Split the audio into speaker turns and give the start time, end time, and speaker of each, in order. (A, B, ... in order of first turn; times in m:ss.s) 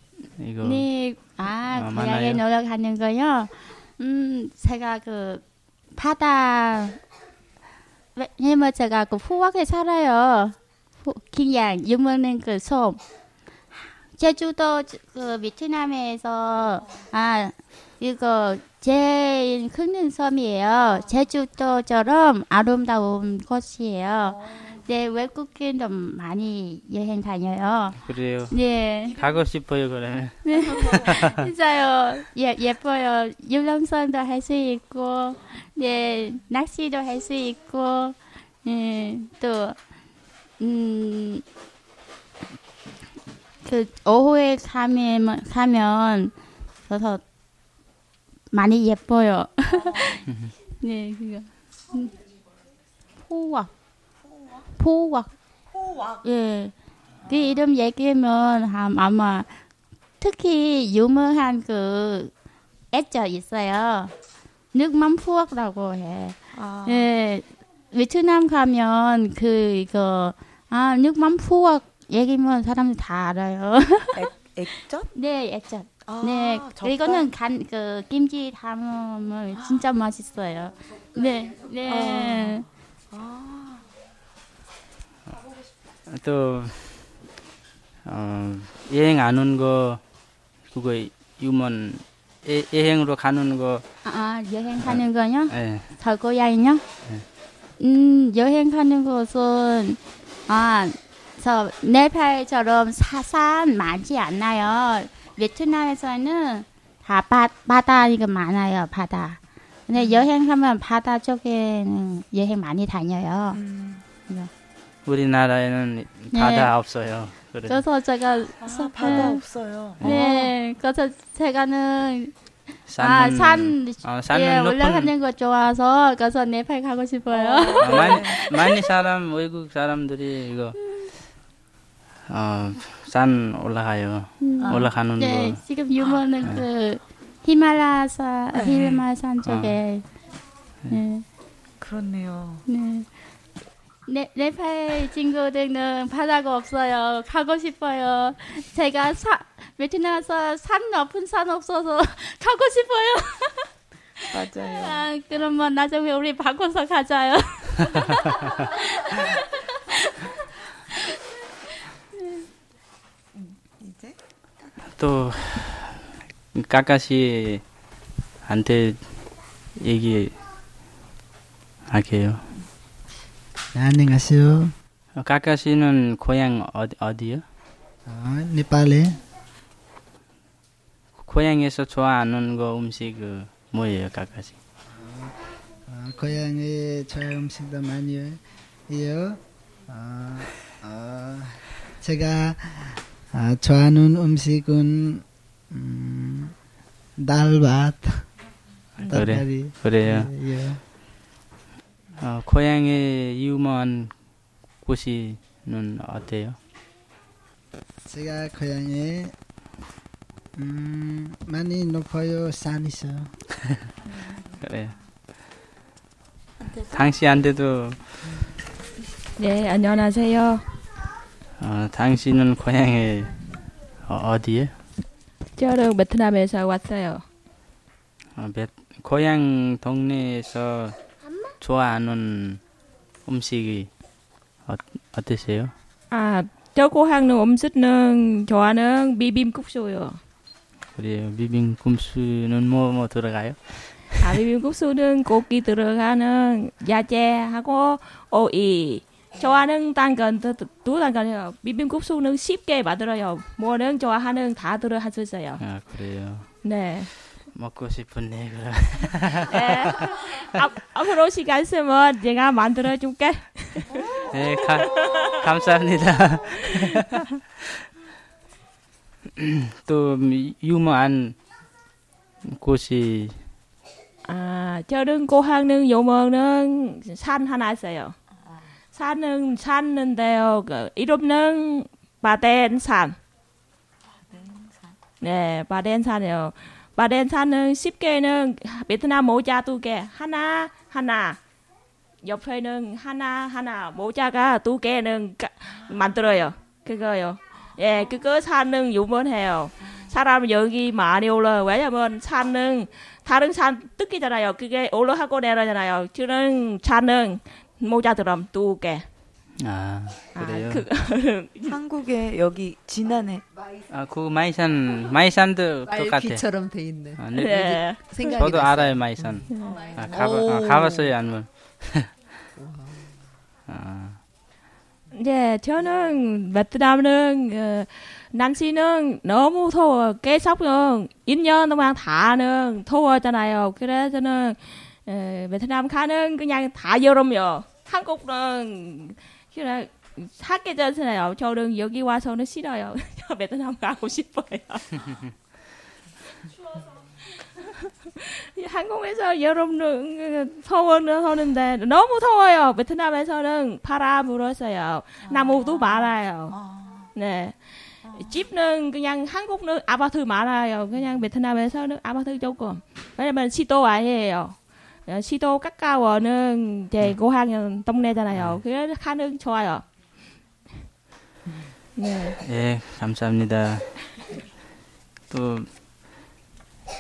0:00.4-0:00.9 A
0:00.6-0:07.0 B
0:01.7-0:02.4 A
0:08.2-0:13.0 B
0:13.7-0:29.2 B
0:28.0-0:31.4 A
0:30.4-0:39.8 B
0:40.6-0:41.4 B
0:43.6-0:46.3 B
0:46.9-0:47.2 B
0:48.5-0:50.2 B
0:50.3-0:50.5 A
0:50.8-0:52.1 B
0:53.2-0:53.7 B
0:54.8-0:55.3 B
0:56.2-0:56.7 B
0:57.2-0:59.6 B
1:00.2-1:02.3 B
1:02.9-1:04.1 B
1:04.7-1:14.6 B
1:06.6-1:07.1 C
1:14.2-1:15.1 C
1:15.1-1:22.7 B
1:16.1-1:17.2 C
1:21.9-1:22.6 C
1:23.1-1:23.8 C
1:26.1-1:27.1 A
1:28.1-1:30.0 A
1:30.7-1:33.9 A
1:34.0-1:36.8 B
1:34.8-1:36.0 A
1:37.8-1:53.6 B
1:53.6-1:54.0 C
1:55.0-1:57.8 A
1:56.3-1:56.7 B
1:57.7-1:59.4 B
1:58.6-2:00.1 C
2:00.0-2:00.2 A
2:00.0-2:02.3 B
2:02.9-2:05.1 A
2:03.0-2:08.8 B
2:07.3-2:08.2 C
2:07.8-2:10.8 A
2:12.3-2:15.6 A
2:14.4-2:20.1 B
2:18.6-2:19.0 C
2:19.4-2:19.8 A
2:20.9-2:21.2 B
2:21.8-2:22.6 C
2:22.7-2:23.1 B
2:24.1-2:33.7 B
2:34.3-2:34.9 C
2:34.4-2:40.3 B
2:43.8-2:44.1 C
2:45.0-2:47.6 A
2:48.5-2:49.1 A
2:49.8-2:50.3 A
2:51.9-2:52.4 A
2:53.7-2:54.7 D
2:55.2-2:57.4 A
2:58.1-2:59.2 D
3:01.2-3:04.6 A
3:04.9-3:05.4 D
3:05.9-3:16.5 D
3:17.2-3:18.3 D
3:19.0-3:20.3 A
3:19.0-3:20.8 D
3:22.2-3:24.2 A
3:24.8-3:26.6 A
3:28.0-3:29.4 D
3:30.6-3:33.3 D
3:34.6-3:35.0 A
3:36.9-3:38.1 A
3:39.4-3:40.6 E
3:41.6-3:43.4 A
3:44.1-3:44.7 A
3:45.6-3:47.2 E
3:48.4-3:51.0 A
3:51.6-3:52.6 A
3:53.3-3:53.9 A
3:54.7-3:55.7 A
3:56.1-4:00.2 E
4:01.0-4:04.1 A
4:04.2-4:15.6 E
4:15.6-4:16.5 A
4:16.6-4:17.1 E
4:17.5-4:19.5 A
4:19.5-4:24.1 E
4:24.3-4:27.0 A
4:24.7-4:25.2 E
4:29.4-4:31.4 A
4:32.5-4:33.4 A
4:34.3-4:38.2 E
4:38.9-4:43.2 E
4:45.2-4:51.4 E
4:52.2-5:09.1 E
5:09.6-5:10.8 A
5:10.4-5:11.8 E
5:11.7-5:13.4 C
5:13.5-5:13.9 F
5:13.9-5:16.4 A
5:15.9-5:21.1 F
5:17.2-5:17.7 A
5:17.4-5:18.5 E
5:18.3-5:22.1 A
5:19.5-5:19.9 E
5:22.6-5:23.1 F
5:23.7-5:24.2 A
5:25.1-5:45.3 E
5:47.6-5:56.6 E
5:55.4-5:55.8 C
5:56.6-5:57.1 C
5:57.1-6:09.8 E
6:08.3-6:08.6 A
6:12.0-6:12.4 E
6:12.4-6:13.8 A
6:15.3-6:15.7 A